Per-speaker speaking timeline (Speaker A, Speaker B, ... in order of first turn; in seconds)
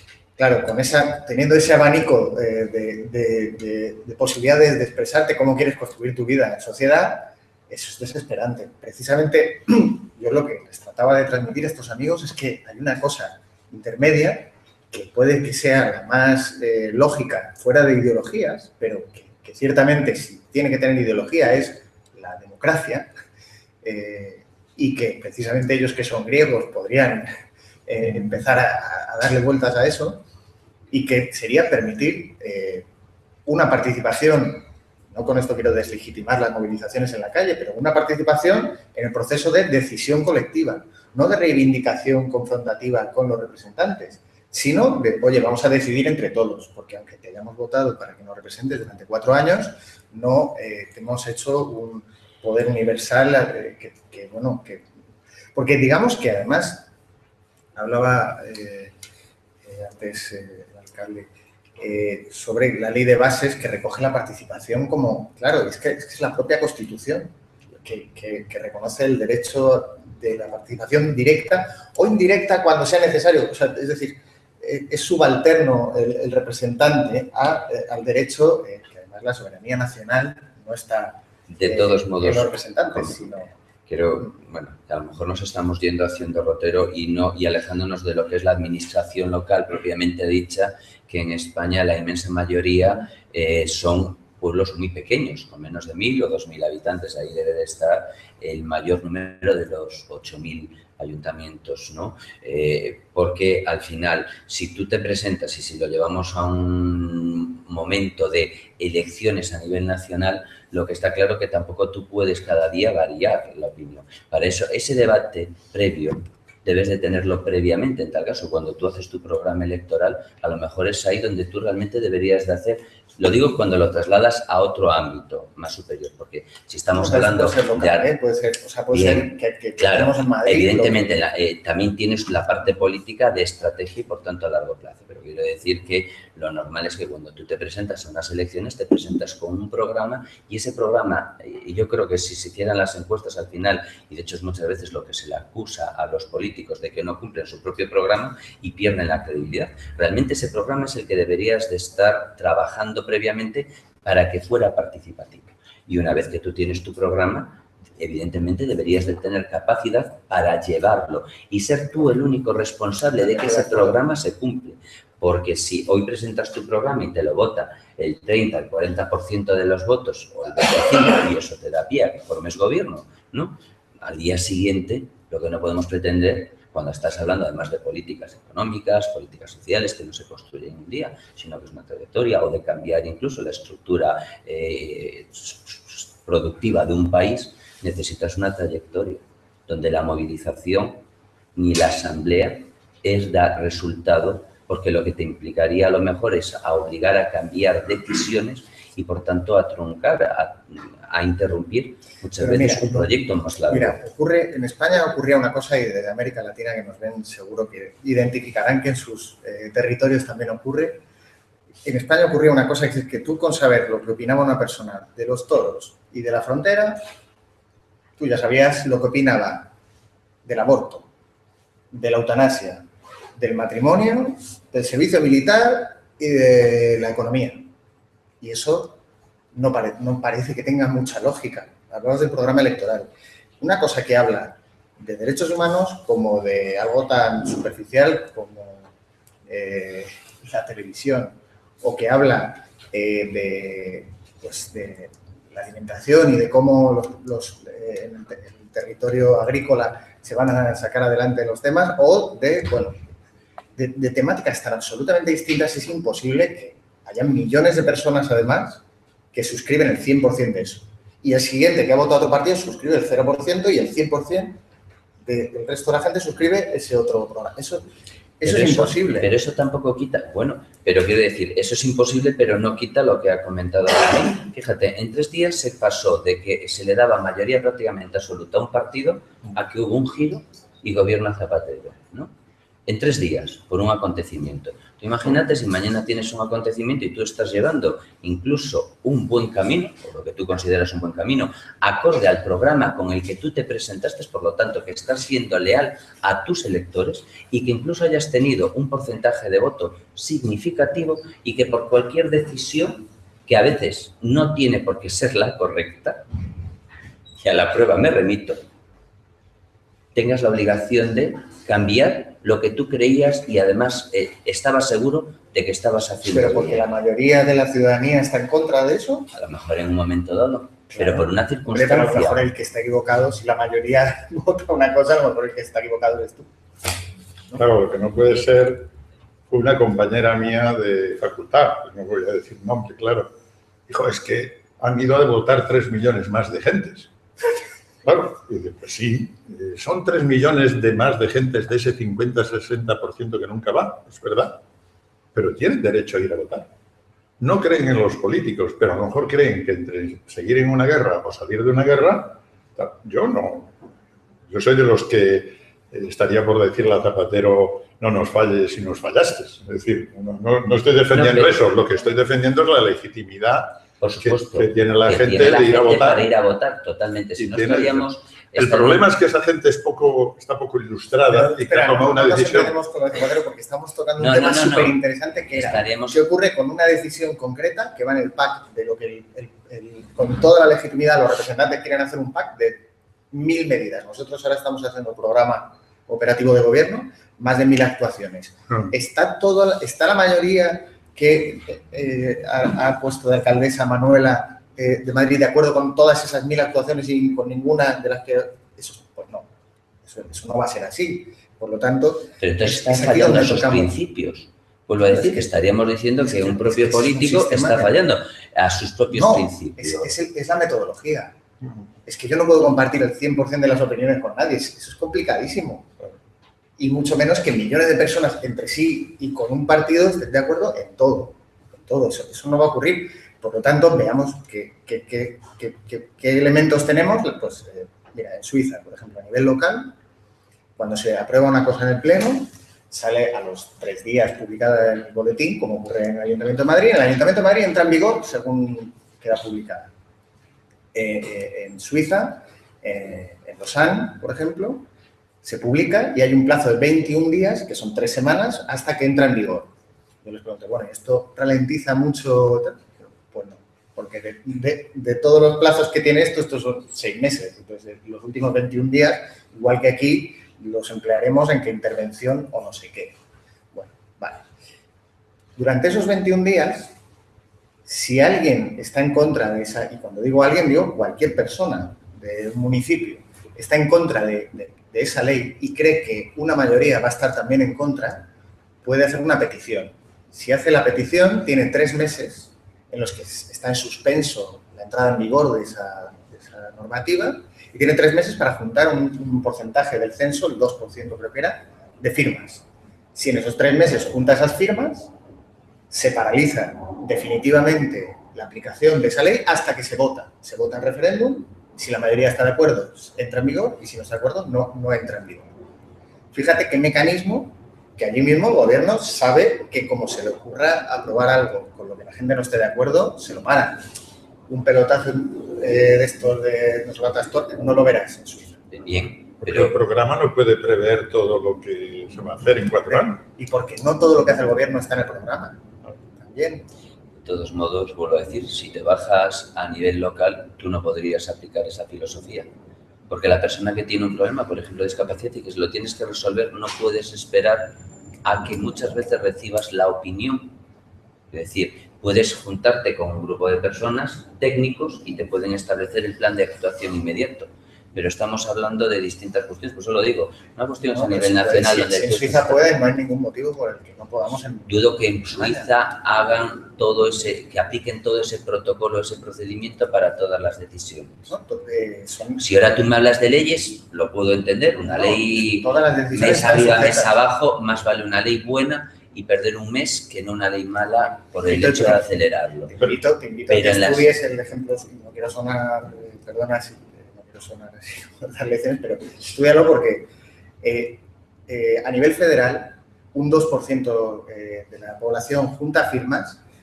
Speaker A: 0.4-23.1, 23.8-30.2, 30.9-32.9, 33.5-54.8, 55.5-56.9, 57.7-58.9, 59.6-83.5, 126.9-131.1, 163.1-164.0, 202.4-203.1, 203.7-211.0, 211.8-217.0, 218.2-219.7, 220.4-221.1, 221.9-227.7, 228.4-229.0, 229.5-238.9, 239.5-253.1, 253.8-258.8, 259.3-264.6, 265.2-267.9, 268.4-269.3, 316.2-319.3, 320.9-326.5, 371.3-399.5, 400.0-404.0, 405.0-405.6, 406.2-408.0, 409.1-411.4, 412.0-415.9, 416.8-429.9, 430.8-439.9, 440.9-444.9, 445.4-449.7, 450.2-463.2, 463.7-464.4, 465.6-466.9, 467.8-478.3, 478.8-495.1, 495.9-505.5, 506.3-513.8, 514.5-518.6, 522.9-526.6, 550.8-555.7, 561.3-562.7, 564.8-567.1, 571.4-580.1, 580.6-586.4
Speaker B: 81.5-83.3, 83.9-128.1, 128.9-191.0, 191.6-204.0, 268.4-282.3, 282.9-306.2, 307.4-308.6, 310.1-316.9, 319.3-322.4, 361.1-361.5, 364.0-369.1, 374.2-375.0, 375.5-376.2, 402.4-410.1, 518.7-519.7, 527.2-532.5, 533.1-540.5, 541.3-552.7, 554.6-561.3, 562.4-572.7, 573.5-574.1
Speaker C: 327.5-328.9, 329.5-333.3, 333.9-337.1, 338.0-344.6, 345.3-346.7, 347.4-353.8, 354.5-366.3, 367.4-372.7, 519.4-523.2